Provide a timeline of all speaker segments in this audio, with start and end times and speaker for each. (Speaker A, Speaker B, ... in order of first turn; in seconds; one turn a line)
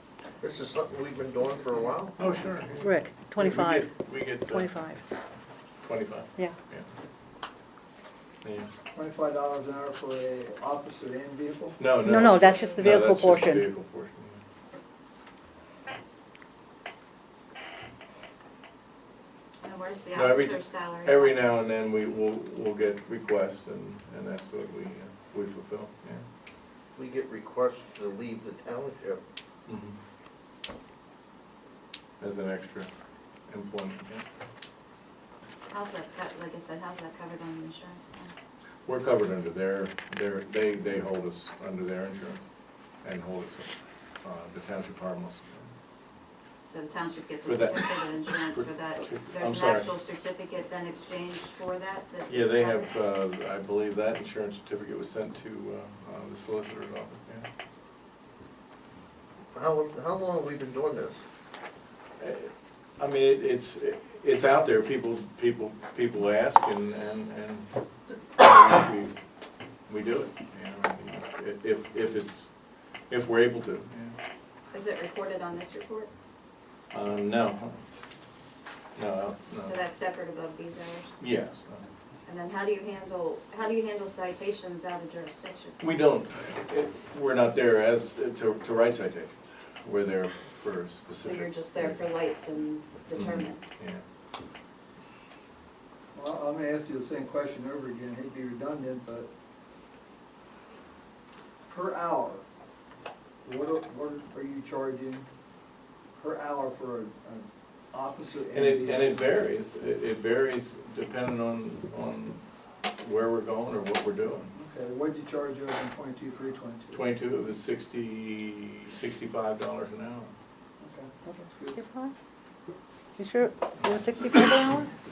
Speaker A: 0.4-2.2
Speaker B: 2.2-4.8
Speaker C: 2.8-3.9
Speaker C: 4.4-5.0
Speaker B: 5.8-6.9
Speaker B: 8.4-8.7
Speaker D: 8.9-11.8
Speaker B: 11.8-14.4
Speaker C: 12.0-13.6
Speaker E: 19.6-21.4
Speaker B: 20.1-26.2
Speaker A: 26.9-29.2
Speaker B: 29.7-30.0
Speaker B: 32.2-32.9
Speaker B: 33.5-34.2
Speaker E: 35.7-38.3
Speaker B: 38.9-42.5
Speaker B: 43.0-45.7
Speaker E: 46.6-52.9
Speaker B: 47.4-49.9
Speaker B: 52.3-57.5
Speaker A: 59.5-61.2
Speaker B: 62.2-67.7
Speaker B: 68.3-69.1
Speaker B: 69.9-72.5
Speaker B: 73.1-74.2
Speaker E: 74.7-76.1
Speaker B: 76.9-77.8
Speaker B: 79.0-79.8
Speaker E: 79.6-81.1
Speaker B: 81.2-81.8
Speaker E: 82.3-85.8
Speaker B: 85.8-92.1
Speaker E: 91.2-93.6
Speaker B: 93.2-94.0
Speaker D: 96.2-99.3
Speaker D: 101.7-102.5
Speaker D: 103.5-105.3
Speaker D: 106.2-109.2
Speaker B: 108.5-112.4
Speaker B: 112.9-114.5
Speaker D: 114.5-117.0
Speaker B: 116.9-120.3
Speaker D: 120.8-121.8
Speaker C: 121.8-122.1
Speaker C: 123.2-124.9
Speaker B: 123.8-124.1